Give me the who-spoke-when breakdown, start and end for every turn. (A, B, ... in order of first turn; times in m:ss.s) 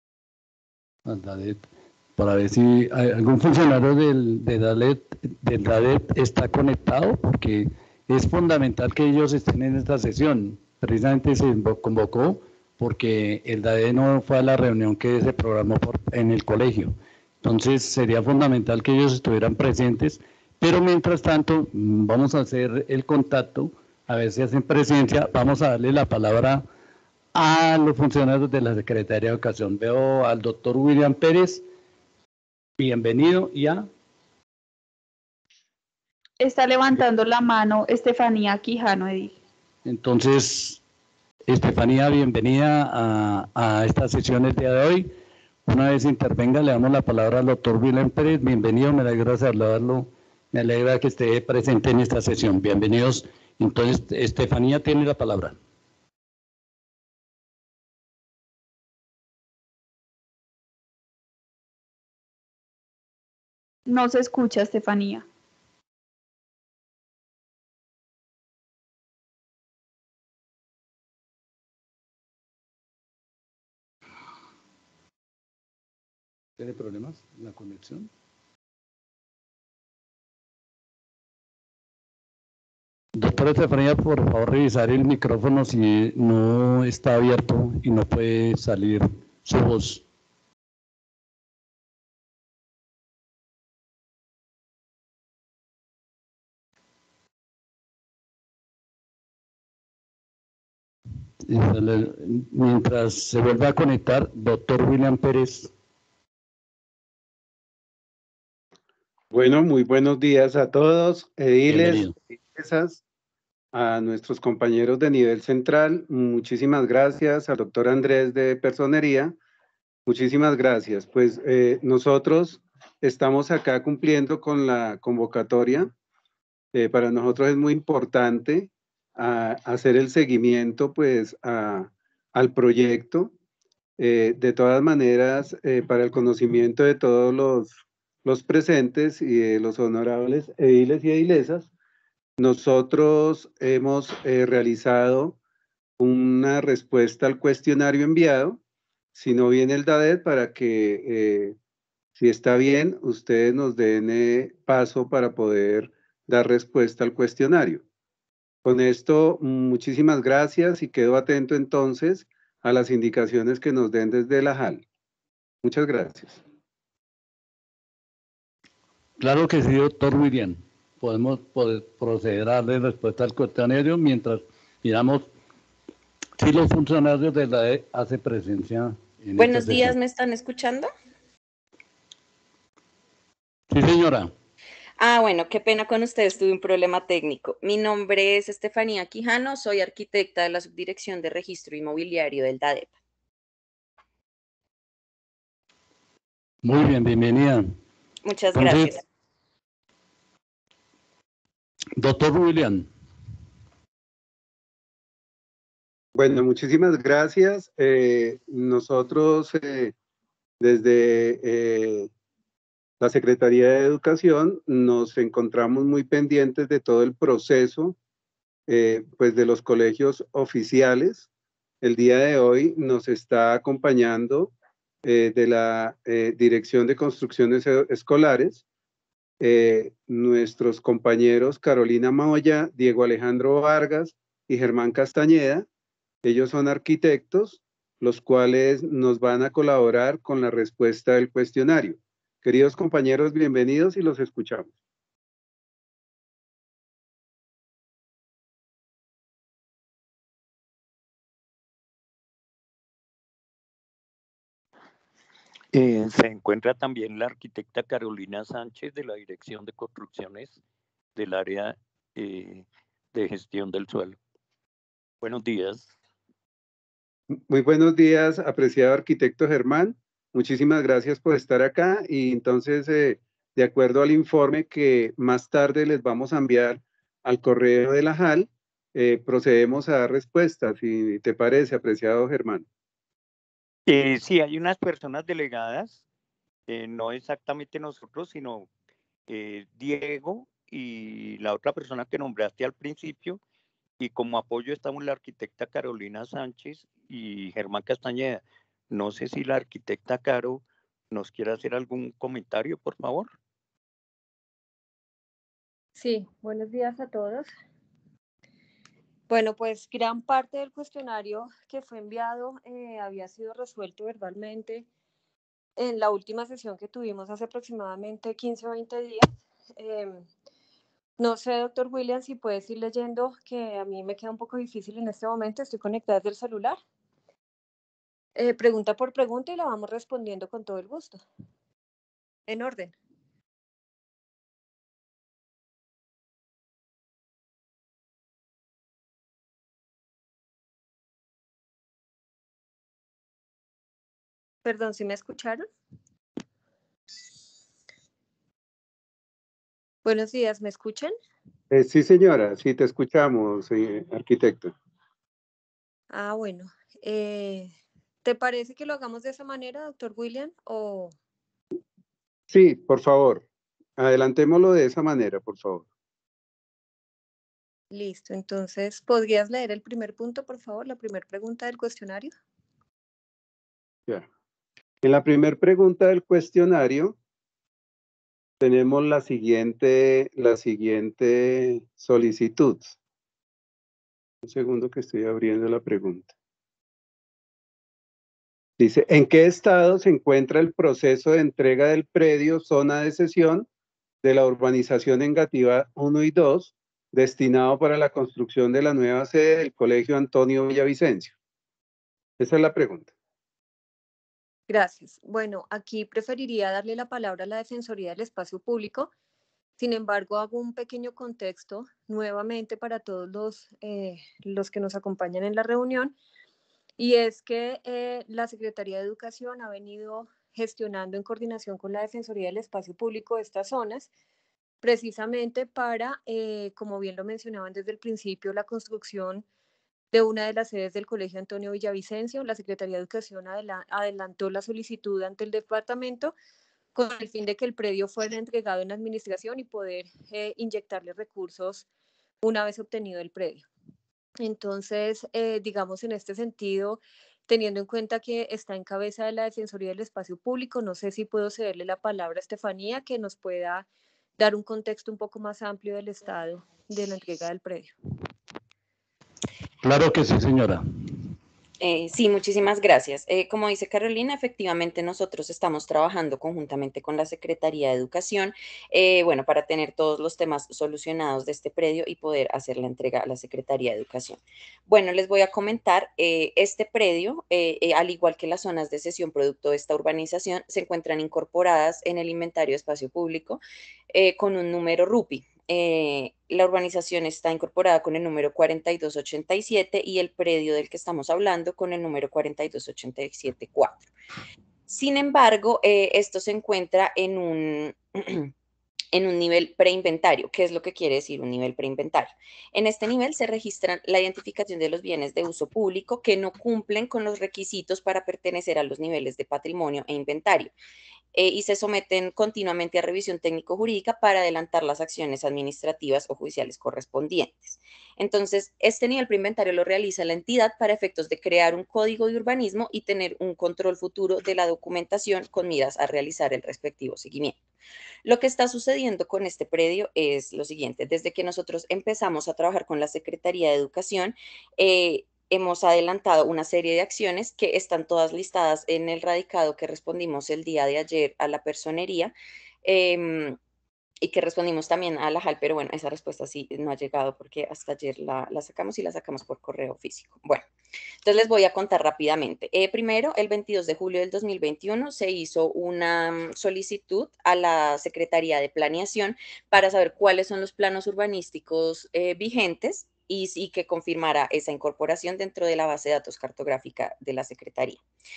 0:01.1-0:26.6 A
0:27.3-0:31.6 A
0:32.8-0:33.9 A
0:36.4-0:39.4 B
0:39.8-0:40.8 A
0:41.5-0:45.1 A
0:45.6-0:55.6 A
1:03.9-1:05.2 B
1:16.6-1:18.1 A
1:23.2-1:30.0 A
1:41.4-1:45.7 A
1:49.3-1:53.0 C
1:51.7-1:52.1 A
1:53.7-1:59.4 C
2:00.1-2:05.9 C
2:06.7-2:13.3 C
2:14.0-2:21.7 C
2:22.4-2:25.4 C
2:26.0-2:28.6 C
2:29.2-2:31.6 C
2:32.2-2:37.8 C
2:38.6-2:44.8 C
2:45.6-2:46.4 C
2:49.2-2:55.3 A
2:56.4-3:00.0 A
2:59.4-3:00.9 D
3:03.7-3:04.3 A
3:05.0-3:12.9 D
3:16.6-3:17.7 A
3:18.2-3:19.0 D
3:18.5-3:18.9 A
3:22.0-3:22.9 A
3:26.2-3:29.9 C
3:30.6-3:32.1 C
3:33.0-3:38.0 C
3:38.7-3:41.3 C
3:41.8-3:44.5 C
3:45.0-3:48.6 C
3:49.4-3:55.6 C
3:56.2-4:04.7 C
4:15.7-4:20.6 E
4:21.2-4:24.2 E
4:25.2-4:25.9 E
4:27.3-4:42.6 C
4:43.9-4:46.0 E
4:46.7-4:48.7 E
4:49.3-4:53.4 E
4:54.0-5:03.3 E
5:06.0-5:07.5 F
5:09.3-5:14.9 F
5:15.8-5:20.2 F
5:21.2-5:26.8 F
5:28.4-5:31.2 F
5:32.5-5:32.9 F
5:44.6-5:45.7 F
5:50.0-5:51.2 F
5:51.7-5:54.7 C
5:56.1-5:57.7 F
5:58.2-6:01.1 F
6:02.5-6:03.4 C
6:04.0-6:05.9 C
6:07.9-6:12.3 F
6:15.0-6:17.2 C
6:18.6-6:23.0 C
6:24.4-6:26.3 C
6:28.8-6:33.7 C
6:34.2-6:41.3 C
6:42.4-6:43.1 C
6:44.7-6:49.1 F
6:49.8-6:56.2 F
6:57.0-7:04.1 F
7:04.8-7:09.4 F
7:10.1-7:16.3 F
7:17.0-7:21.9 F
7:22.4-7:23.6 F
7:24.4-7:33.9 F
7:34.4-7:37.9 F
7:39.8-7:40.8 A
7:41.8-8:14.0 D
8:14.9-8:18.5 D
8:19.1-8:30.7 D
8:31.3-8:47.6 D
8:48.2-9:03.6 D
9:04.2-9:10.6 D
9:11.2-9:28.0 D